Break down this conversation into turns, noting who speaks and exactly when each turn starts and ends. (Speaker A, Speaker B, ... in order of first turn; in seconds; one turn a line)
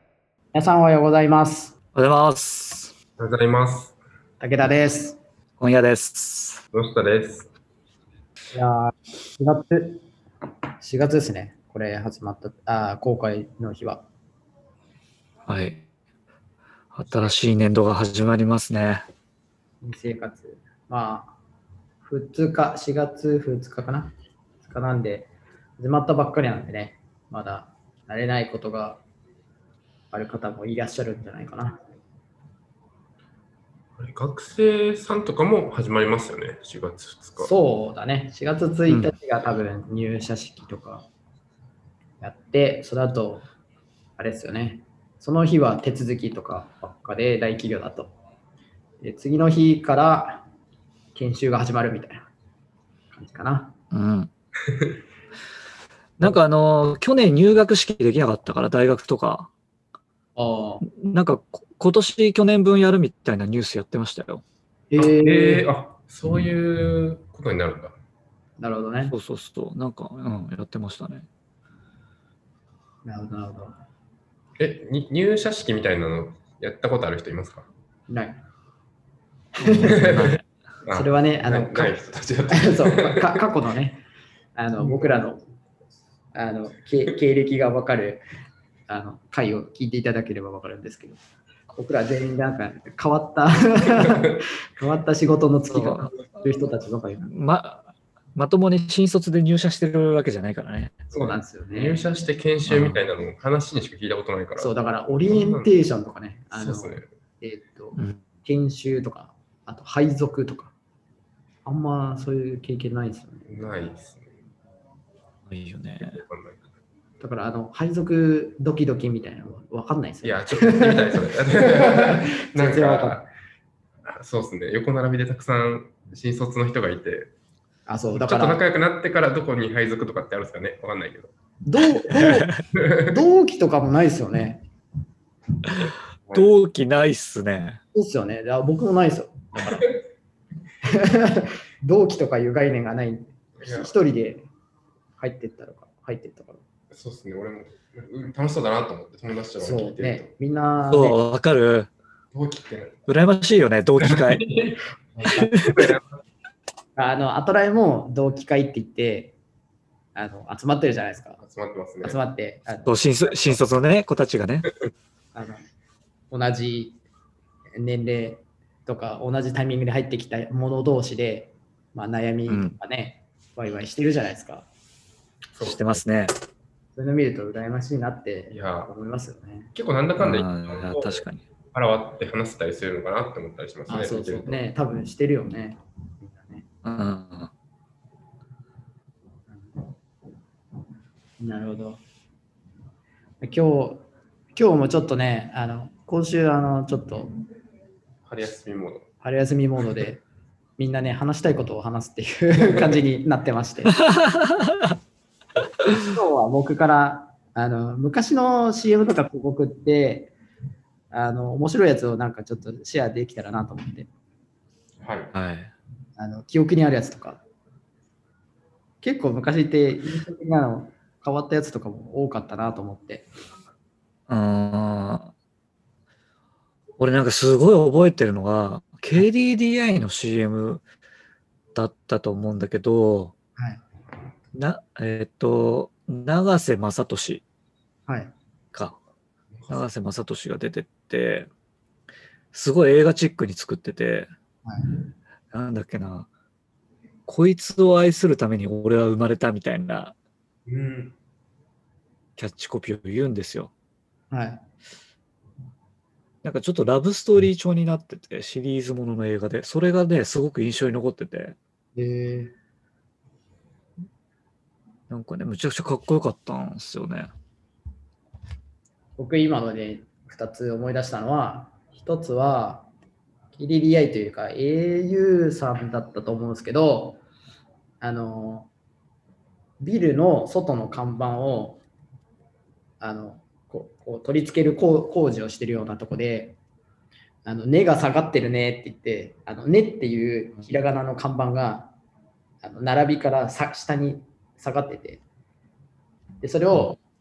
Speaker A: 0.5-1.7
Speaker B: 1.9-2.9
Speaker C: 3.2-4.0
Speaker A: 4.4-5.2
Speaker B: 5.6-6.6
Speaker C: 6.7-7.5
Speaker A: 8.5-10.0
Speaker A: 10.8-14.1
Speaker B: 15.4-15.8
Speaker B: 16.9-19.0
Speaker A: 19.8-21.4
Speaker A: 22.0-29.0
Speaker A: 30.1-31.8
Speaker C: 34.0-37.5
Speaker A: 37.4-41.1
Speaker B: 38.9-39.1
Speaker A: 42.2-43.5
Speaker A: 44.2-48.1
Speaker A: 49.0-50.5
Speaker A: 51.1-52.3
Speaker A: 53.1-53.7
Speaker B: 53.9-54.3
Speaker B: 56.2-59.5
Speaker A: 60.4-60.8
Speaker B: 60.8-64.4
Speaker A: 64.9-65.7
Speaker C: 65.0-67.9
Speaker A: 68.6-69.1
Speaker B: 69.1-71.3
Speaker A: 73.0-73.7
Speaker C: 74.6-77.7
Speaker A: 78.1-78.4
Speaker A: 79.6-80.1
Speaker B: 79.6-80.5
Speaker C: 79.9-83.4
Speaker A: 80.9-82.0
Speaker A: 82.5-84.0
Speaker A: 84.5-85.4
Speaker C: 84.8-85.2
Speaker A: 86.3-88.2
Speaker A: 88.9-91.2
Speaker A: 91.7-97.3
Speaker B: 95.7-96.2
Speaker B: 97.2-101.0
Speaker C: 101.1-104.8
Speaker A: 101.1-102.0
Speaker B: 102.7-103.0
Speaker A: 104.6-110.7
Speaker C: 105.3-105.7
Speaker C: 106.5-107.1
Speaker B: 108.0-108.2
Speaker A: 111.6-113.5
Speaker C: 113.5-114.3
Speaker B: 115.5-116.2
Speaker C: 116.0-116.6
Speaker A: 117.2-123.2
Speaker C: 120.2-123.3
Speaker C: 124.0-127.3
Speaker A: 127.9-128.6
Speaker C: 128.1-131.3
Speaker A: 131.6-134.6
Speaker B: 132.1-132.6
Speaker C: 132.8-133.1
Speaker B: 136.3-137.8
Speaker A: 137.9-139.8
Speaker C: 139.5-140.0
Speaker A: 140.8-144.5
Speaker C: 143.6-143.9
Speaker A: 145.2-146.6
Speaker C: 146.9-150.3
Speaker A: 149.6-151.2
Speaker B: 150.9-151.9
Speaker C: 152.3-153.0
Speaker B: 153.1-154.5
Speaker C: 154.1-156.0
Speaker B: 155.2-155.9
Speaker A: 156.9-159.3
Speaker A: 160.1-161.4
Speaker C: 161.4-162.2
Speaker A: 162.0-163.6
Speaker B: 162.8-164.7
Speaker A: 165.3-165.6
Speaker A: 166.3-167.0
Speaker A: 167.8-174.7
Speaker B: 172.5-172.8
Speaker C: 175.5-176.0
Speaker B: 175.6-176.3
Speaker A: 176.9-179.7
Speaker C: 178.5-178.9
Speaker C: 179.7-184.6
Speaker B: 180.2-181.4
Speaker A: 183.9-186.7
Speaker B: 186.8-187.5
Speaker A: 189.5-189.8
Speaker A: 191.4-192.0
Speaker A: 193.4-197.3
Speaker C: 198.2-199.1
Speaker A: 199.2-200.2
Speaker A: 200.8-204.0
Speaker C: 202.6-203.0
Speaker B: 203.9-205.0
Speaker A: 205.9-210.3
Speaker A: 211.1-214.1
Speaker C: 215.0-215.3
Speaker B: 215.3-215.7
Speaker A: 216.2-217.4
Speaker A: 219.0-223.3
Speaker B: 224.3-225.3
Speaker B: 227.0-230.8
Speaker B: 231.7-233.3
Speaker A: 233.6-233.8
Speaker B: 234.5-237.4
Speaker A: 238.1-238.3
Speaker C: 239.5-239.9
Speaker B: 239.7-241.5
Speaker B: 242.5-244.3
Speaker A: 244.6-245.0
Speaker B: 245.5-246.3
Speaker B: 247.3-250.1
Speaker C: 250.7-251.2
Speaker B: 252.4-253.7
Speaker A: 254.3-254.6
Speaker B: 256.4-261.6
Speaker A: 261.9-262.5
Speaker B: 265.1-267.3
Speaker A: 269.1-272.9
Speaker A: 273.5-277.2
Speaker A: 278.0-278.7
Speaker A: 279.8-281.8
Speaker A: 283.0-286.6
Speaker A: 287.4-291.9
Speaker A: 292.6-295.2
Speaker A: 296.4-297.0